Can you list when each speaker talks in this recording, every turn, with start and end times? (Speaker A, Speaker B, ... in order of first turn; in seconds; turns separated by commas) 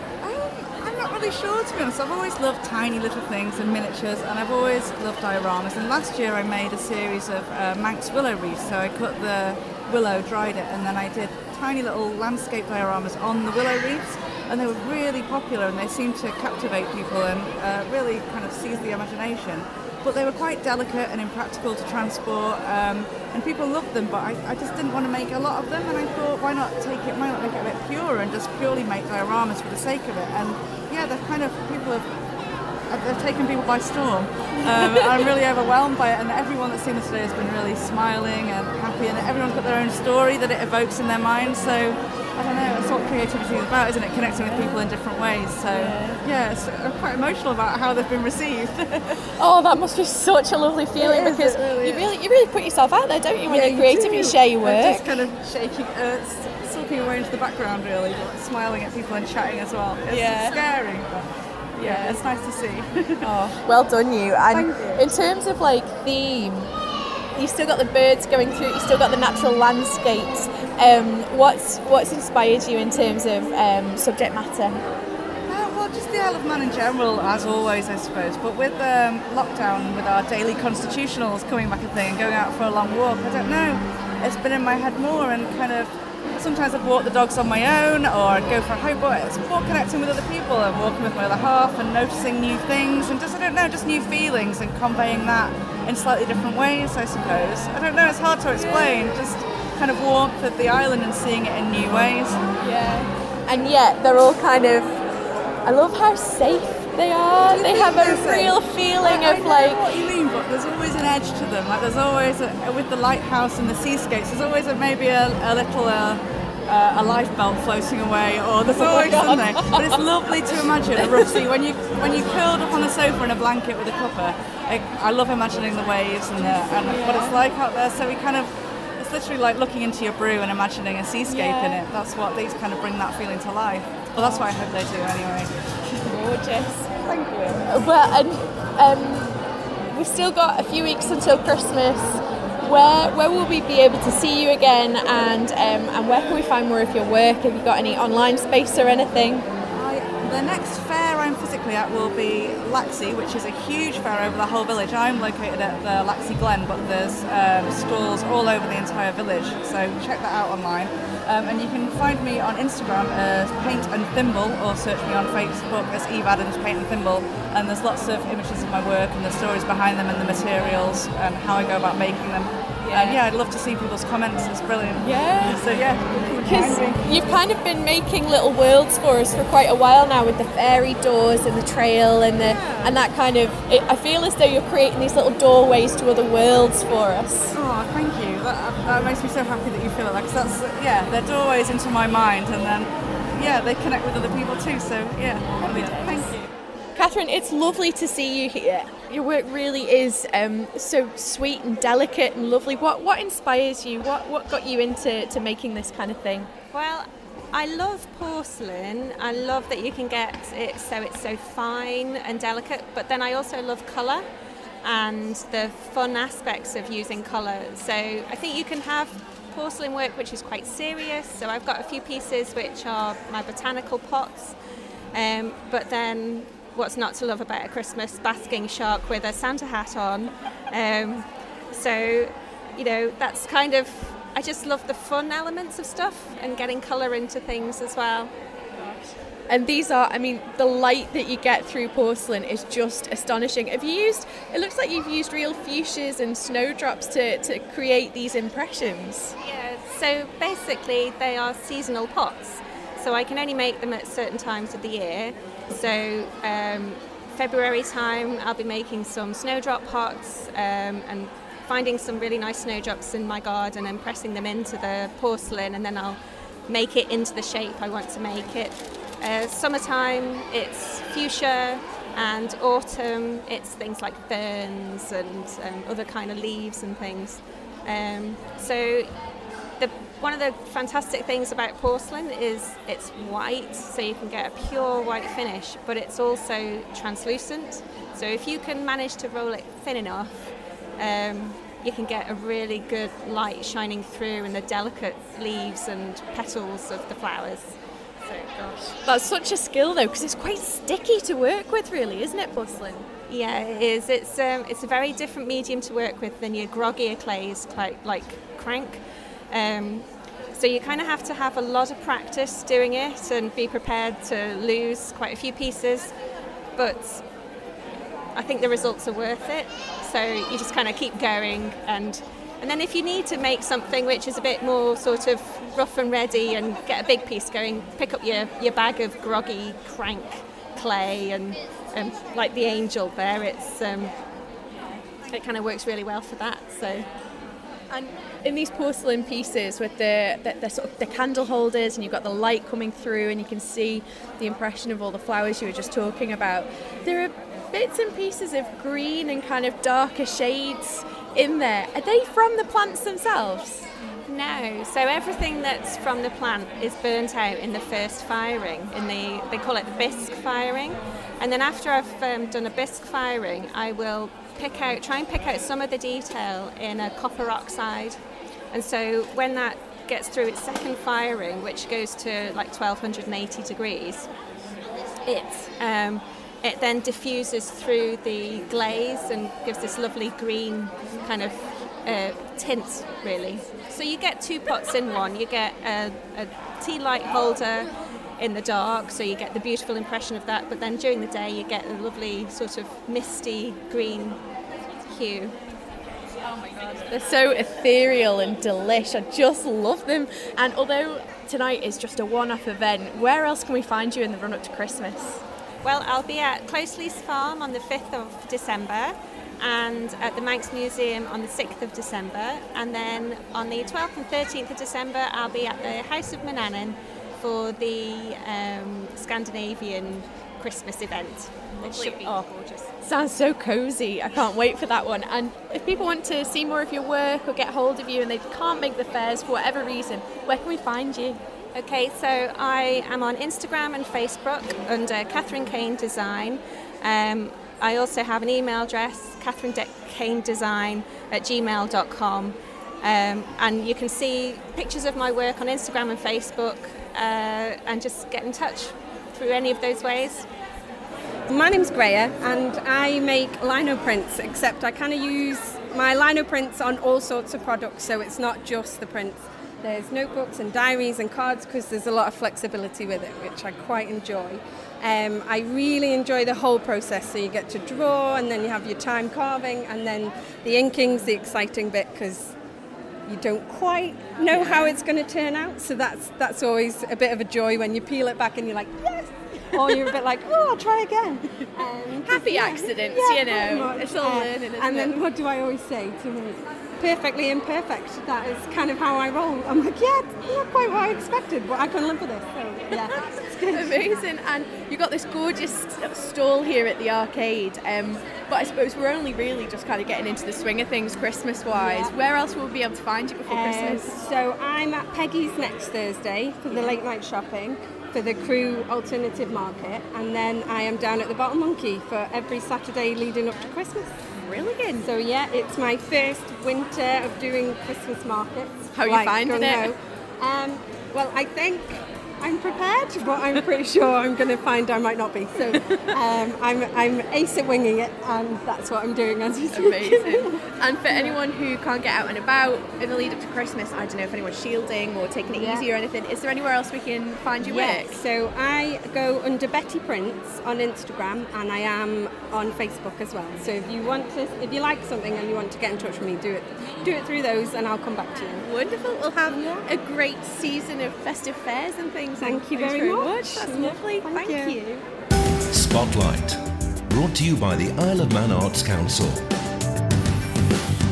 Speaker A: 0.2-32.1, Speaker A: 32.9-49.2, Speaker B: 34.6-35.2, Speaker B: 44.4-44.8, Speaker B: 45.7-46.2, Speaker B: 49.4-55.1, Speaker A: 51.0-52.1, Speaker A: 53.5-61.3, Speaker B: 60.1-60.6, Speaker B: 61.8-62.2, Speaker A: 61.8-63.5, Speaker B: 63.2-66.7, Speaker A: 64.5-65.0, Speaker B: 67.3-74.8, Speaker A: 75.5-102.5, Speaker B: 98.5-99.1, Speaker B: 102.6-105.0, Speaker B: 105.6-109.8, Speaker A: 107.5-135.5, Speaker B: 118.7-119.9, Speaker B: 120.9-121.4, Speaker B: 126.4-127.4, Speaker B: 131.3-131.8, Speaker B: 134.2-134.4, Speaker B: 136.1-139.4, Speaker B: 139.9-149.5, Speaker A: 149.7-177.3, Speaker B: 172.8-173.2, Speaker B: 175.0-187.5, Speaker A: 182.4-183.0, Speaker A: 187.5-196.5, Speaker B: 195.6-196.3, Speaker B: 196.9-206.5, Speaker C: 206.7-214.2, Speaker C: 214.8-224.5, Speaker C: 225.1-238.3, Speaker B: 239.5-249.3, Speaker C: 249.4-279.1, Speaker C: 279.8-298.9, Speaker B: 299.0-303.1, Speaker C: 303.3-316.1, Speaker C: 316.8-317.2, Speaker C: 318.3-334.1, Speaker C: 335.3-337.1, Speaker B: 337.9-353.9, Speaker C: 354.3-368.2, Speaker C: 368.7-374.3, Speaker C: 375.3-394.4, Speaker C: 395.0-395.5, Speaker B: 397.1-405.4, Speaker C: 405.8-422.9, Speaker B: 421.8-422.4, Speaker B: 423.0-431.4, Speaker C: 431.7-450.5, Speaker D: 451.5-472.5, Speaker D: 473.2-494.1, Speaker B: 482.2-485.1, Speaker B: 493.7-504.1, Speaker D: 501.7-502.1, Speaker D: 503.5-514.3, Speaker B: 506.7-506.9, Speaker B: 514.4-515.1, Speaker D: 515.0-531.4, Speaker B: 518.9-519.9, Speaker B: 525.7-526.1, Speaker B: 529.7-538.2, Speaker D: 535.5-535.9, Speaker D: 537.6-548.7, Speaker B: 548.6-554.8, Speaker D: 549.5-549.9, Speaker D: 552.4-555.0, Speaker E: 555.7-559.4